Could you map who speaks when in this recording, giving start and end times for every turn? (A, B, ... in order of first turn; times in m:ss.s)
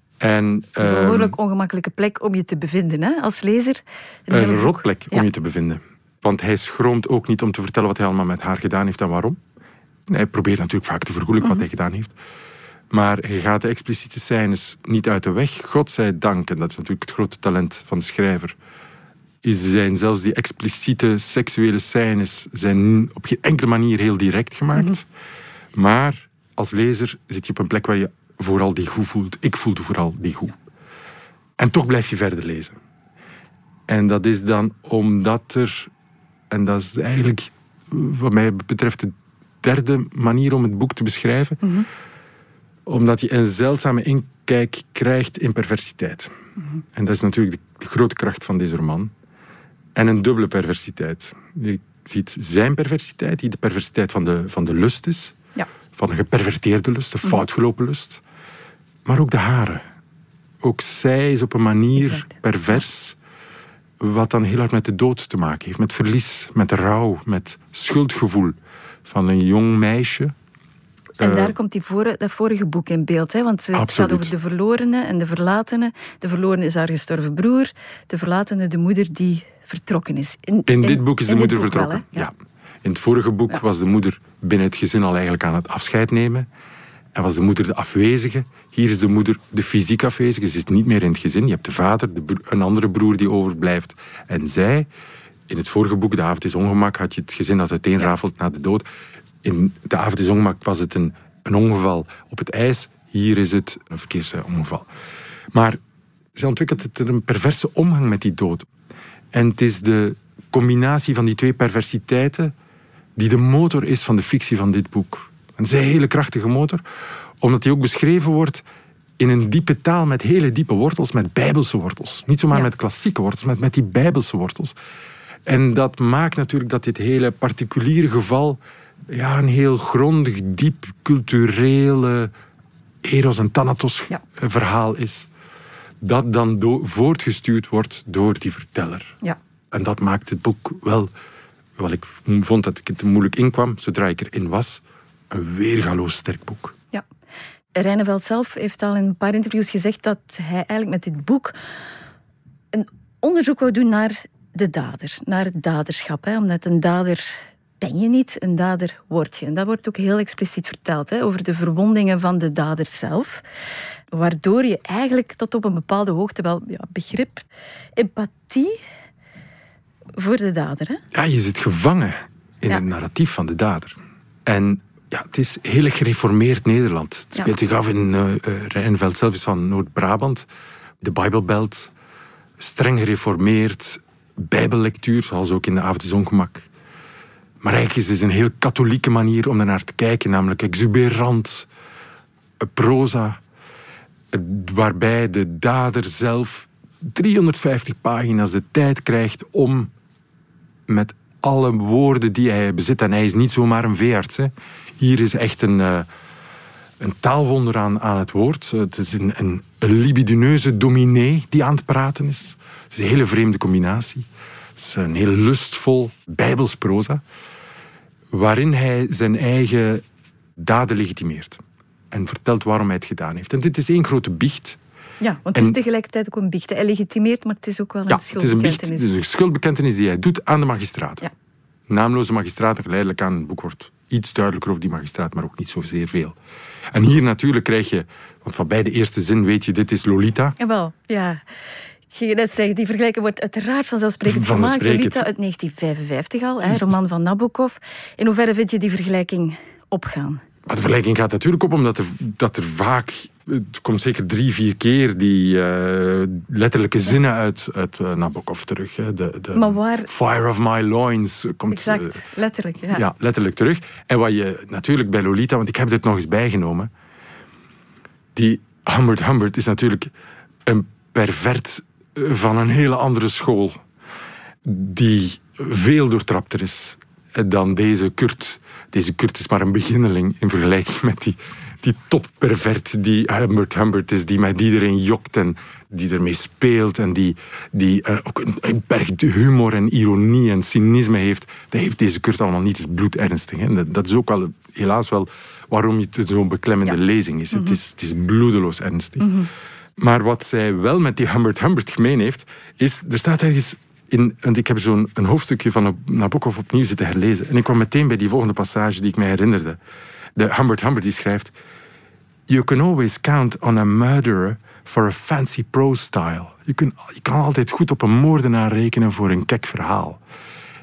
0:00.2-0:01.4 A
0:00.8-0:05.3 B
0:04.3-0:09.4 A
0:10.1-0:12.1 A
0:12.9-0:18.6 A
0:19.4-0:25.1 A
0:25.8-0:30.6 A
0:31.6-0:32.8 A
0:33.9-0:35.9 A
0:36.5-0:41.7 A
0:42.9-0:46.3 A
0:46.9-0:49.1 A
0:50.0-0:55.4 A
0:55.9-0:58.2 A
0:59.0-0:59.8 A
1:00.6-1:03.2 A
1:02.0-1:02.3 B
1:04.0-1:10.3 A
1:11.2-1:11.5 A
1:11.2-1:22.3 B
1:13.7-1:14.3 A
1:20.7-1:26.5 A
1:27.2-1:34.9 A
1:35.5-1:38.9 A
1:39.4-1:44.9 A
1:45.5-1:45.8 A
1:46.4-1:48.7 A
1:49.3-1:52.5 A
1:53.2-1:56.8 A
1:57.4-1:58.6 A
1:59.2-2:04.8 A
2:05.5-2:12.3 A
2:13.0-2:15.3 A
2:16.0-2:19.2 A
2:19.7-2:21.1 A
2:21.8-2:26.8 A
2:27.8-2:31.6 B
2:32.7-2:43.4 B
2:44.1-2:47.4 B
2:48.0-2:48.8 B
2:50.2-2:51.0 B
2:51.1-3:00.5 A
3:01.0-3:01.9 A
3:02.6-3:06.7 A
3:07.6-3:11.7 A
3:12.6-3:13.4 A
3:14.3-3:19.9 A
3:20.9-3:26.1 A
3:27.0-3:37.2 A
3:38.3-3:40.0 A
3:40.6-3:44.8 A
3:45.2-3:49.1 B
3:48.1-3:51.3 A
3:51.9-3:56.4 A
3:56.9-4:00.6 A
4:00.6-4:01.4 B
4:02.1-4:10.4 B
4:04.2-4:05.3 A
4:06.6-4:06.9 A
4:10.7-4:22.2 A
4:19.6-4:20.1 B
4:21.7-4:23.0 B
4:22.9-4:26.9 A
4:28.4-4:30.1 A
4:30.6-4:33.8 A
4:34.6-4:59.4 A
4:59.2-4:59.5 B
5:00.0-5:09.8 A
5:10.4-5:11.5 A
5:12.5-5:20.2 A